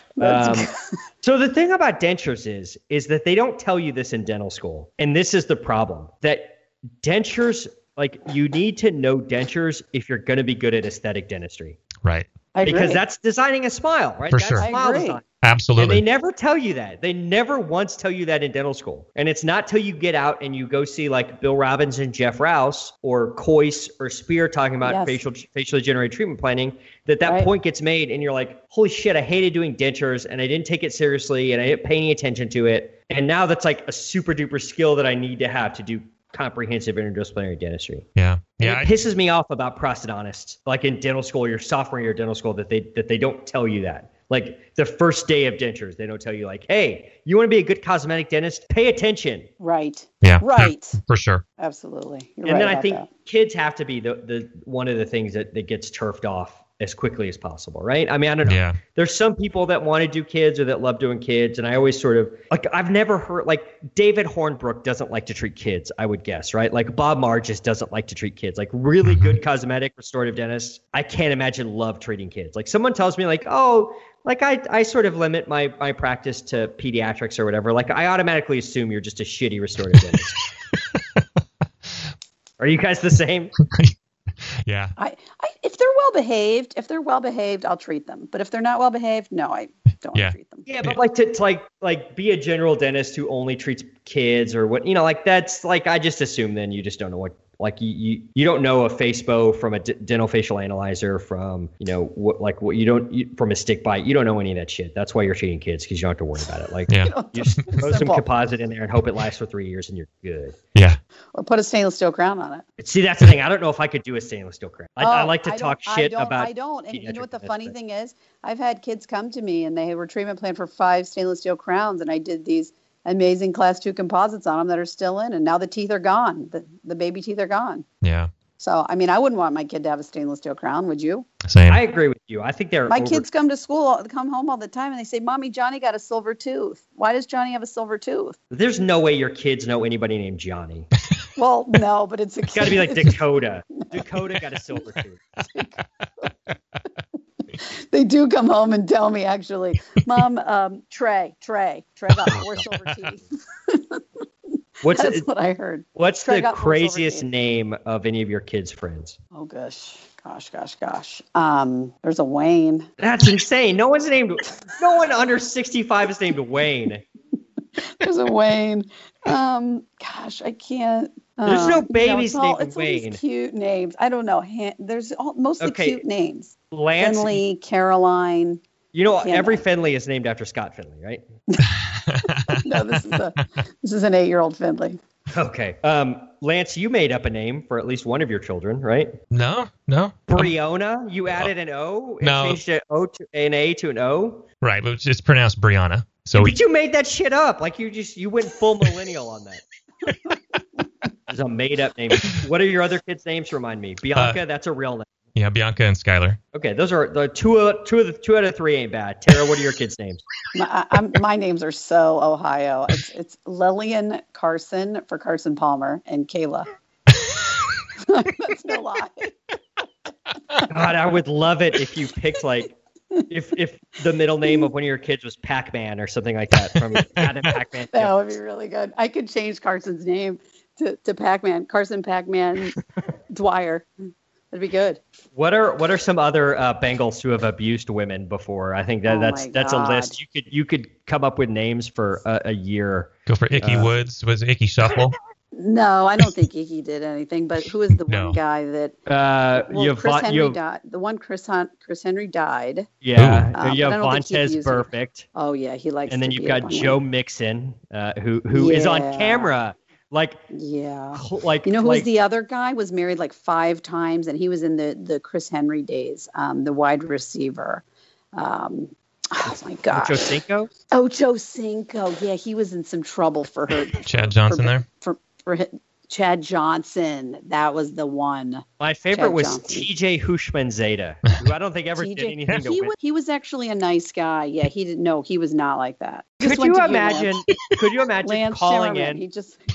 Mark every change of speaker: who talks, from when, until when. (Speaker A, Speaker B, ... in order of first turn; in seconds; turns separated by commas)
Speaker A: 0.2-0.8, Speaker B: 0.2-11.8, Speaker C: 12.0-12.3, Speaker A: 12.6-13.0, Speaker B: 12.6-15.3, Speaker C: 14.3-14.7, Speaker A: 14.6-15.2, Speaker C: 15.4-16.0, Speaker B: 15.8-38.0, Speaker A: 24.8-25.2, Speaker A: 27.2-27.5, Speaker C: 38.2-38.9, Speaker B: 38.6-49.5, Speaker A: 49.6-51.0, Speaker C: 50.2-51.4, Speaker A: 51.6-53.1, Speaker B: 52.4-80.4, Speaker C: 58.5-58.8, Speaker C: 69.0-69.4, Speaker C: 80.7-81.2, Speaker B: 82.6-83.5, Speaker C: 83.7-83.9, Speaker C: 84.6-85.0, Speaker A: 85.0-90.7, Speaker C: 90.2-91.0, Speaker B: 90.7-110.6, Speaker C: 106.9-107.8, Speaker A: 107.0-108.3, Speaker C: 110.8-111.0, Speaker A: 111.3-112.6, Speaker B: 112.8-117.7, Speaker A: 115.0-127.8, Speaker C: 128.0-128.3, Speaker A: 128.6-131.3, Speaker C: 131.5-131.8, Speaker B: 131.7-133.3, Speaker A: 132.9-138.4, Speaker B: 138.5-140.9, Speaker A: 141.4-143.2, Speaker B: 142.5-145.2, Speaker A: 145.5-146.3, Speaker A: 147.6-154.0, Speaker C: 152.3-152.7, Speaker B: 154.8-155.3, Speaker A: 154.8-157.3, Speaker B: 156.0-159.2, Speaker A: 159.3-162.9, Speaker B: 163.0-167.0, Speaker A: 167.9-178.6, Speaker B: 171.4-173.2, Speaker B: 175.6-176.0, Speaker B: 176.7-177.4, Speaker B: 178.9-181.2, Speaker A: 179.2-179.6, Speaker C: 182.1-182.6, Speaker A: 182.3-185.0, Speaker B: 185.3-189.2, Speaker C: 189.3-190.5, Speaker B: 190.3-194.5, Speaker C: 192.2-192.6, Speaker C: 194.6-196.6, Speaker B: 196.3-199.6, Speaker B: 201.3-205.1, Speaker C: 205.3-206.4, Speaker B: 206.5-210.2, Speaker A: 210.5-216.7, Speaker A: 218.0-219.3, Speaker B: 220.7-222.8, Speaker B: 223.3-228.4, Speaker A: 227.9-232.8, Speaker A: 233.3-233.9, Speaker A: 234.5-235.0, Speaker B: 235.3-243.9, Speaker A: 239.1-240.2, Speaker C: 243.3-245.2, Speaker A: 245.6-249.0, Speaker C: 248.1-248.4, Speaker B: 249.1-250.6, Speaker A: 249.5-252.9, Speaker B: 253.0-255.3, Speaker C: 253.2-253.5, Speaker A: 253.6-257.0, Speaker B: 256.1-260.4, Speaker A: 258.5-259.5, Speaker A: 260.5-270.3, Speaker B: 261.1-262.1, Speaker B: 269.9-270.7, Speaker A: 270.9-279.9, Speaker C: 274.1-274.8, Speaker B: 278.8-283.0, Speaker A: 282.0-287.3, Speaker B: 286.4-289.2, Speaker A: 288.2-289.6